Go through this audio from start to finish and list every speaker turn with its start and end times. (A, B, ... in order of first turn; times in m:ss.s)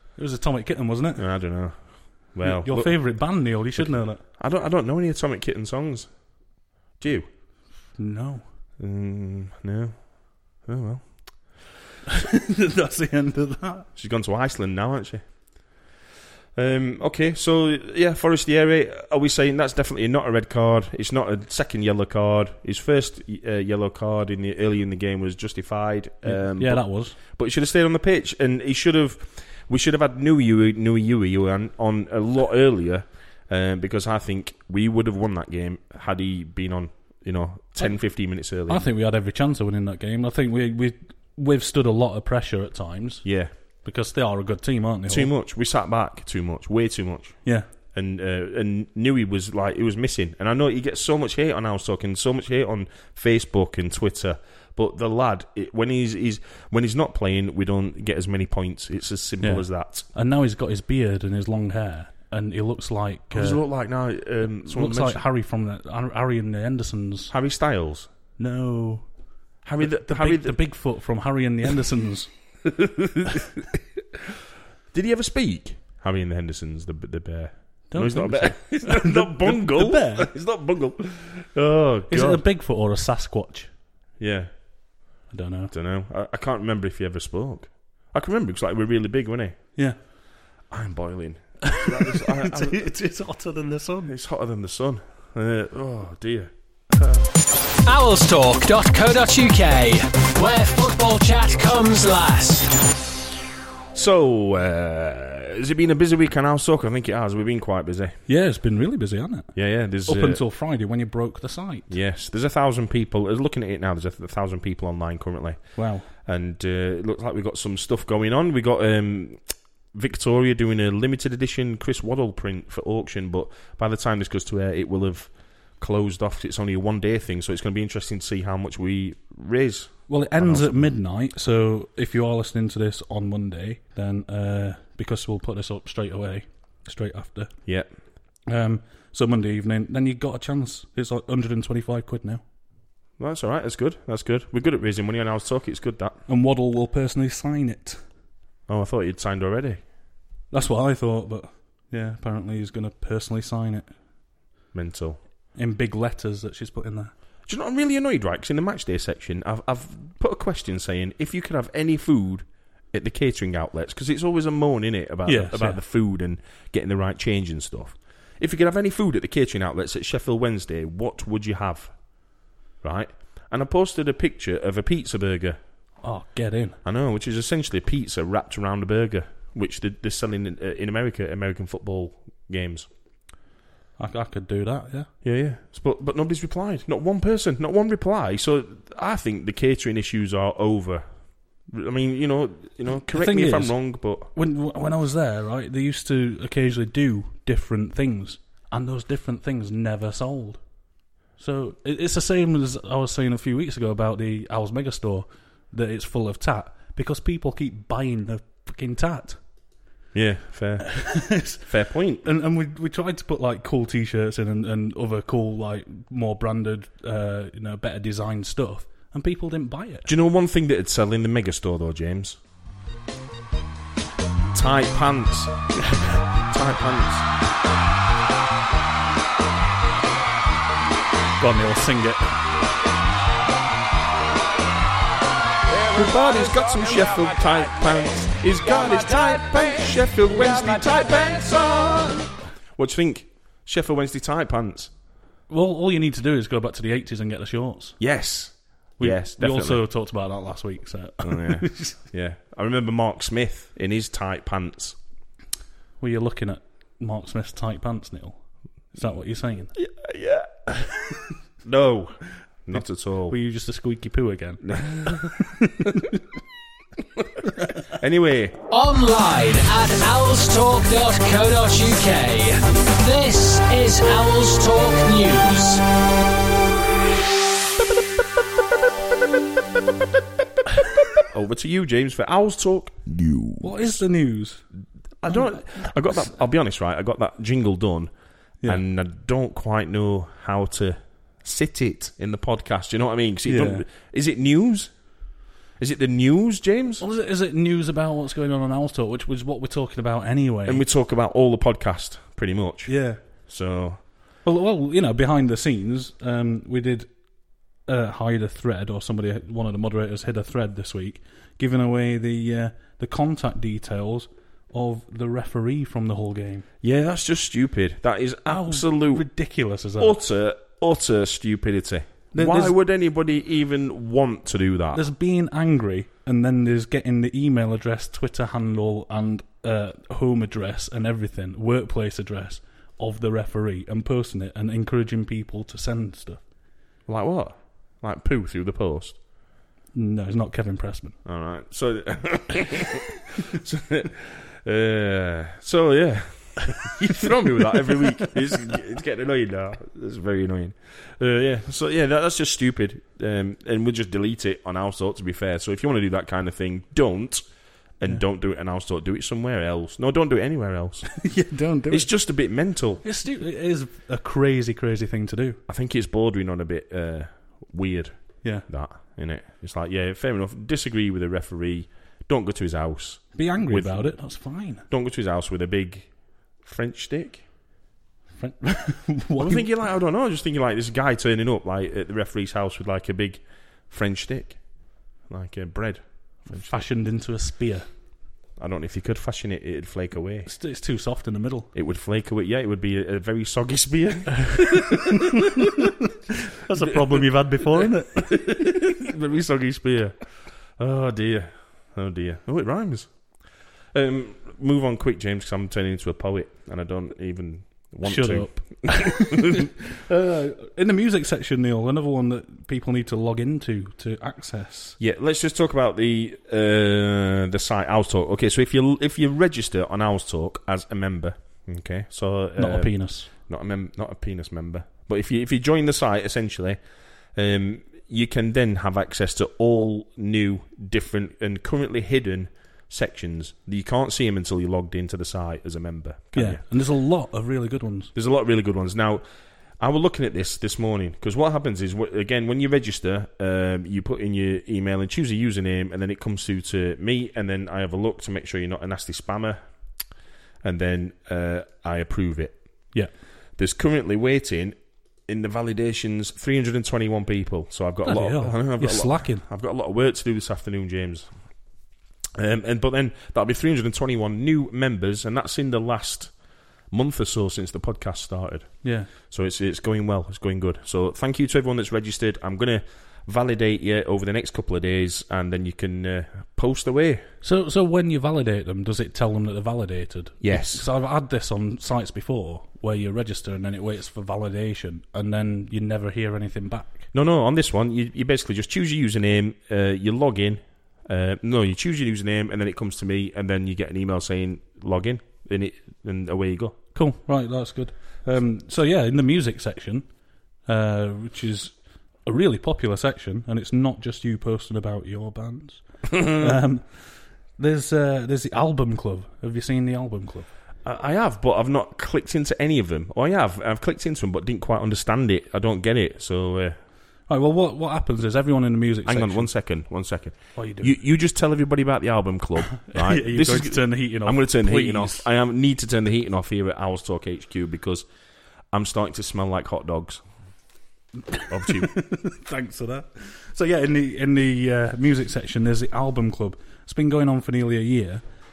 0:00.2-0:01.2 A
0:01.2-0:06.4 B
0:02.4-0:04.2 A
0:07.0-0:07.3 B
0:07.9-0:08.5 A
0:08.8-0:11.7 B
0:12.1-0:13.9 A
0:14.0-0:15.8 B
0:16.5-0:38.9 B
0:26.2-0:27.2 A
0:38.7-0:43.2 A
0:43.2-0:43.5 B
0:43.8-0:45.3 A
0:45.1-1:00.1 B
0:59.4-1:03.6 A
1:03.3-1:05.2 B
1:04.6-1:07.3 A
1:07.3-1:08.1 B
1:08.4-1:09.1 A
1:09.6-1:10.6 B
1:09.8-1:12.3 A
1:12.6-1:13.4 B
1:14.9-1:22.4 B
1:17.9-1:20.3 A
1:22.1-1:23.7 A
1:24.2-1:24.5 B
1:25.3-1:25.7 A
1:25.7-1:29.6 B
1:30.7-1:32.9 B
1:31.6-1:34.1 A
1:34.0-1:37.2 B
1:37.8-1:42.7 C
1:43.9-1:48.2 B
1:48.3-1:51.9 A
1:49.5-1:50.4 B
1:51.9-2:10.9 B
1:55.7-1:56.1 A
2:10.1-2:17.5 A
2:18.5-2:22.4 A
2:23.2-2:26.2 B
2:26.3-2:28.0 A
2:28.7-2:29.8 B
2:30.5-2:33.9 A
2:34.7-2:35.2 B
2:35.5-2:37.1 A
2:37.5-2:52.0 B
2:45.2-2:45.8 A
2:52.8-2:55.6 B
2:56.0-2:56.8 A
2:56.8-3:02.9 B
3:04.0-3:05.1 A
3:05.2-3:14.3 B
3:13.1-3:20.7 A
3:21.4-3:29.4 A
3:30.1-3:32.2 B
3:31.0-3:31.6 A
3:32.2-3:40.1 A
3:40.0-3:42.4 B
3:44.5-3:45.8 B
3:46.5-3:47.2 B
3:51.4-3:52.4 A
3:55.8-4:04.9 B
4:05.5-4:08.0 A
4:08.0-4:09.8 B
4:09.0-4:12.0 A
4:11.2-4:15.0 B
4:16.0-4:18.4 A
4:18.9-4:19.7 A
4:19.8-4:20.7 B
4:21.6-4:23.4 B
4:23.3-4:26.2 A
4:24.6-4:25.4 B
4:27.2-4:28.6 B
4:28.7-4:35.8 C
4:41.1-4:43.9 B
4:43.6-4:44.6 A
4:45.2-4:48.1 B
4:45.3-4:45.6 A
4:48.6-4:55.2 B
4:53.4-4:53.8 A
4:55.8-4:57.0 B
4:57.0-5:00.8 A
5:00.6-5:04.0 B
5:02.9-5:03.2 A
5:04.4-5:07.1 A
5:07.8-5:16.6 A
5:16.8-5:19.3 B
5:18.5-5:20.2 A
5:20.0-5:25.0 B
5:22.3-5:22.7 A
5:24.9-5:36.4 A
5:37.1-5:39.2 B
5:39.9-5:41.2 A
5:41.2-5:57.5 B
5:46.8-5:48.3 A
5:58.0-6:01.3 B
6:01.2-6:02.1 A
6:01.9-6:03.0 B
6:03.0-6:05.6 A
6:05.7-6:14.2 B
6:13.3-6:14.8 A
6:14.9-6:17.4 B
6:18.4-6:19.7 A
6:19.4-6:26.8 B
6:26.5-6:27.9 A
6:28.6-6:30.5 B
6:30.4-6:31.7 A
6:31.7-6:35.4 B
6:34.5-6:35.0 A
6:36.6-6:38.9 A
6:36.8-6:40.2 B
6:40.8-6:43.4 B
6:43.9-6:49.7 B
6:48.0-6:55.0 A
6:55.0-7:06.8 B
7:02.6-7:03.3 A
7:07.3-7:16.6 B
7:16.3-7:18.1 A
7:18.1-7:19.2 B
7:19.8-7:29.7 B
7:30.6-7:32.9 B
7:33.6-7:41.3 B
7:38.0-7:39.4 A
7:42.4-7:46.3 B
7:46.9-7:57.2 B
7:48.8-7:49.1 A
7:57.4-8:07.1 A
8:00.4-8:00.8 B
8:07.1-8:16.8 B
8:16.9-8:20.1 A
8:20.6-8:30.5 A
8:26.2-8:26.5 B
8:30.8-8:36.8 B
8:37.3-8:39.5 A
8:39.0-8:48.0 B
8:40.6-8:40.9 A
8:42.8-8:45.3 A
8:48.7-8:50.2 B
8:51.3-8:58.2 A
8:51.5-8:51.9 B